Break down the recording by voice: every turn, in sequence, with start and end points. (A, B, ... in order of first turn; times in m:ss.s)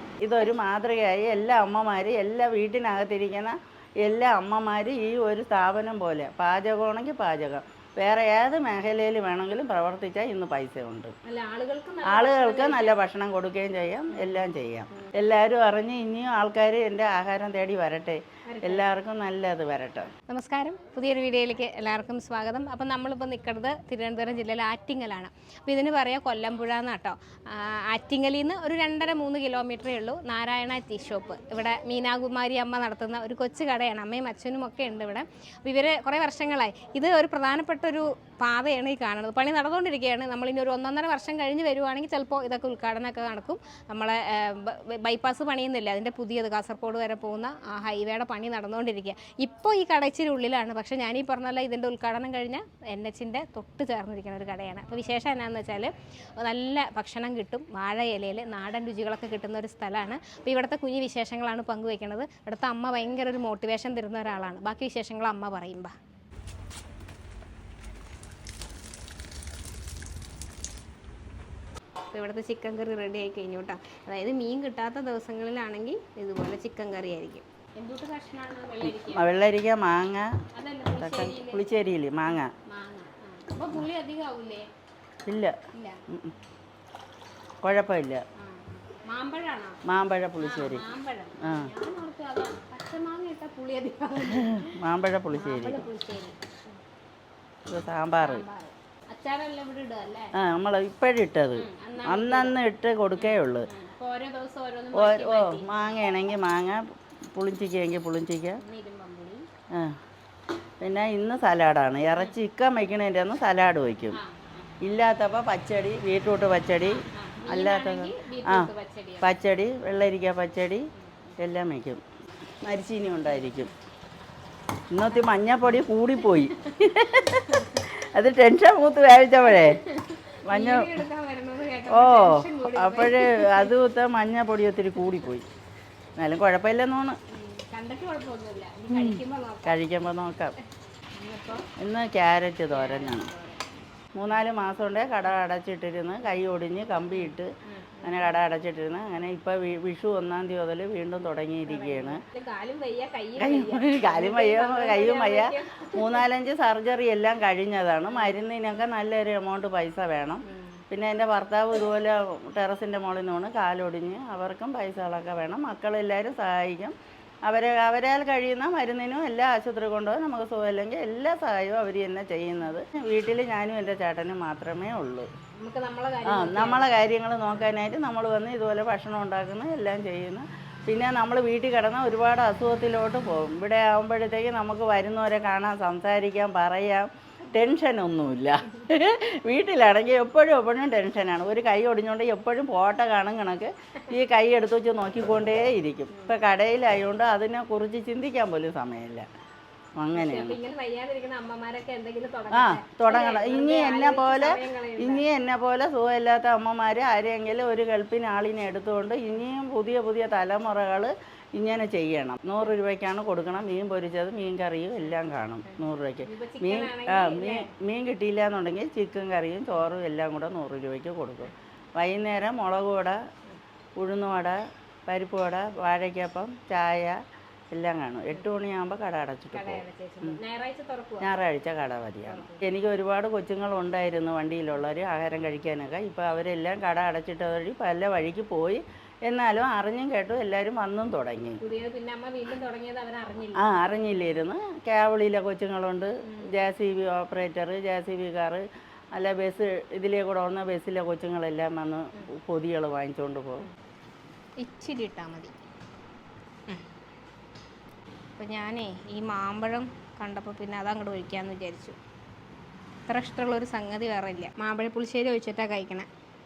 0:00.2-0:11.1 A
0:11.2-0:13.0 B
0:12.0-0:20.1 A
0:14.1-0:14.4 B
0:18.5-0:18.9 B
0:20.3-1:05.9 B
1:12.1-1:19.3 B
1:18.8-1:20.4 A
1:20.5-1:21.7 B
1:21.0-1:22.5 A
1:22.6-1:24.7 B
1:25.3-1:25.6 A
1:25.7-1:26.0 B
1:26.1-1:26.3 A
1:27.6-1:28.2 A
1:28.4-1:29.8 B
1:29.8-1:30.8 A
1:30.4-1:34.8 B
1:31.4-1:31.7 A
1:34.3-1:35.9 A
1:35.3-1:36.4 B
1:37.7-1:38.4 A
1:38.2-1:40.3 B
1:40.4-1:43.7 A
1:41.6-1:42.6 B
1:43.2-1:45.8 B
1:44.9-1:48.6 A
1:48.6-1:49.4 B
1:49.7-1:50.0 A
1:50.8-1:54.2 A
1:54.1-1:54.7 B
1:54.8-1:58.7 A
1:56.8-1:59.3 B
1:59.2-2:00.9 A
2:01.4-2:02.0 A
2:02.6-2:03.7 A
2:04.9-2:09.8 A
2:06.3-2:07.9 B
2:09.4-2:13.7 B
2:10.5-2:11.0 A
2:11.9-2:15.5 A
2:16.2-2:17.2 A
2:17.3-2:19.8 B
2:18.9-2:20.6 A
2:21.2-2:21.7 B
2:21.8-2:23.3 A
2:22.7-2:23.6 B
2:24.2-2:27.5 A
2:27.1-2:28.3 B
2:28.0-2:32.2 A
2:31.7-2:36.2 B
2:33.4-2:47.0 A
2:38.1-2:38.4 B
2:40.5-2:40.8 B
2:47.5-2:55.3 A
2:55.6-2:56.9 B
2:56.3-3:19.3 A
3:20.0-3:20.6 A
3:20.1-3:25.3 B
3:22.5-3:43.2 A
3:36.2-3:37.7 B
3:44.0-3:47.2 A
3:47.7-3:50.4 A
3:49.5-3:51.3 B
3:51.2-4:01.6 A
3:52.3-3:52.6 B
4:01.6-4:03.7 B
4:03.6-4:13.7 A
4:14.6-4:15.6 B
4:18.4-4:22.0 B
4:23.1-4:26.1 B